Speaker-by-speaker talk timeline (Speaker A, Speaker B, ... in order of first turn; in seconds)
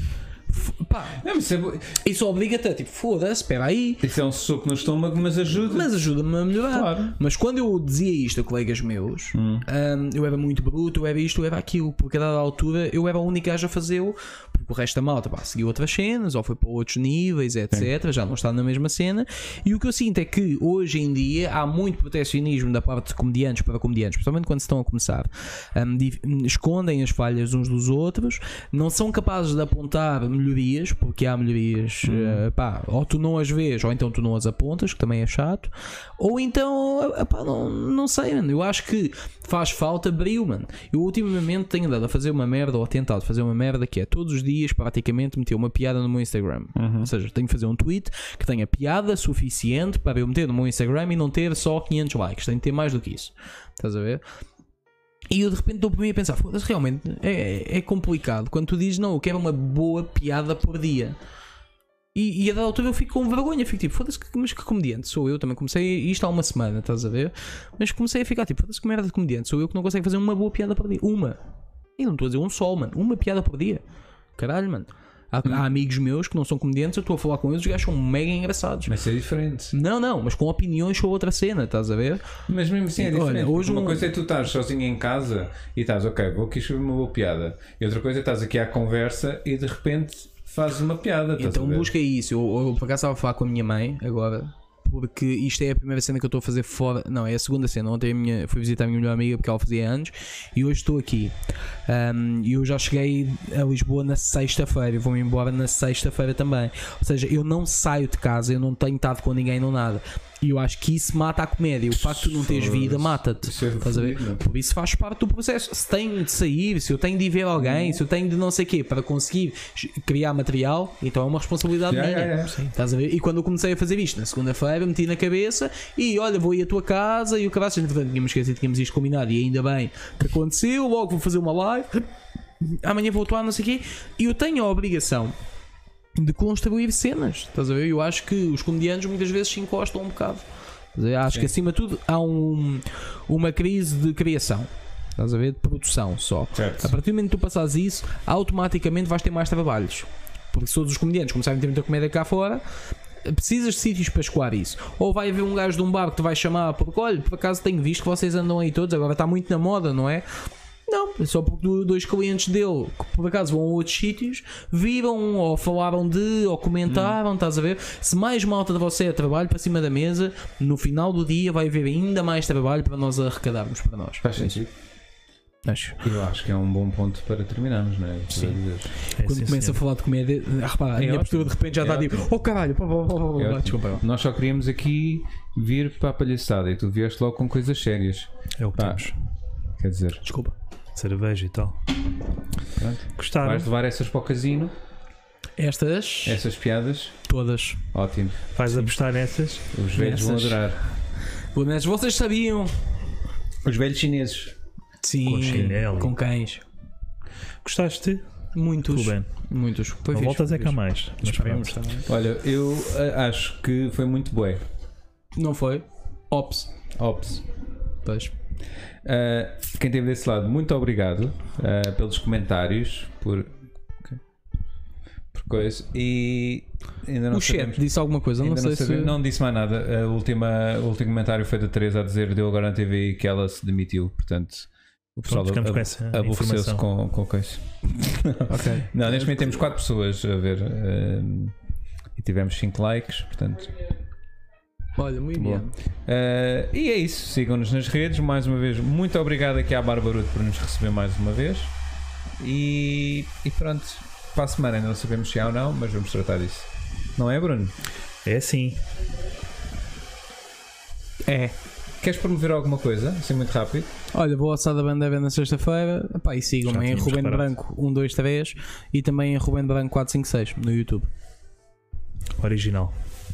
Speaker A: 0.5-1.2, 2.0-4.0, 5.7-54.2, 55.3-61.2, 62.1-71.4, 72.0-73.8, 74.4-78.9, 79.7-82.2, 83.0-84.1, 91.4-132.1, 132.6-135.3, 136.2-152.6, 153.2-160.3, 160.9-174.6, 175.7-176.0, 179.1-184.0, 190.3-190.5, 195.6-196.4, 197.3-197.8, 198.7-198.9, 200.0-200.6, 201.5-202.8, 205.0-206.7, 208.5-212.1, 215.3-216.8, 218.1-218.3, 227.3-229.2, 238.5-239.6, 245.0-245.7, 261.2-261.6, 264.1-271.1
Speaker B: 1.2-2.0, 4.0-5.9, 6.6-7.2, 9.3-9.7, 32.0-32.4, 46.8-47.1, 78.9-79.7, 82.5-91.9, 111.9-114.4, 117.6-118.0, 121.9-122.7, 146.6-146.9, 166.9-167.2, 174.2-174.7, 176.0-178.9, 181.8-182.2, 183.4-189.1, 189.8-190.2, 192.8-194.7, 196.2-197.2, 197.9-198.4, 199.7-200.8, 203.6-204.6, 212.1-214.6, 217.0-217.4, 219.0-224.2, 225.3-241.6, 242.2-243.8, 245.4-251.7, 252.4-257.7, 262.0-263.9
Speaker C: 179.2-179.8, 181.1-181.5, 188.6-189.2, 191.0-191.8, 193.2-193.7, 198.5-199.7, 205.2-206.2, 207.6-208.2, 208.8-209.3, 210.1-211.8, 235.3-236.8, 258.2-258.8, 266.7-267.5, 272.4-272.9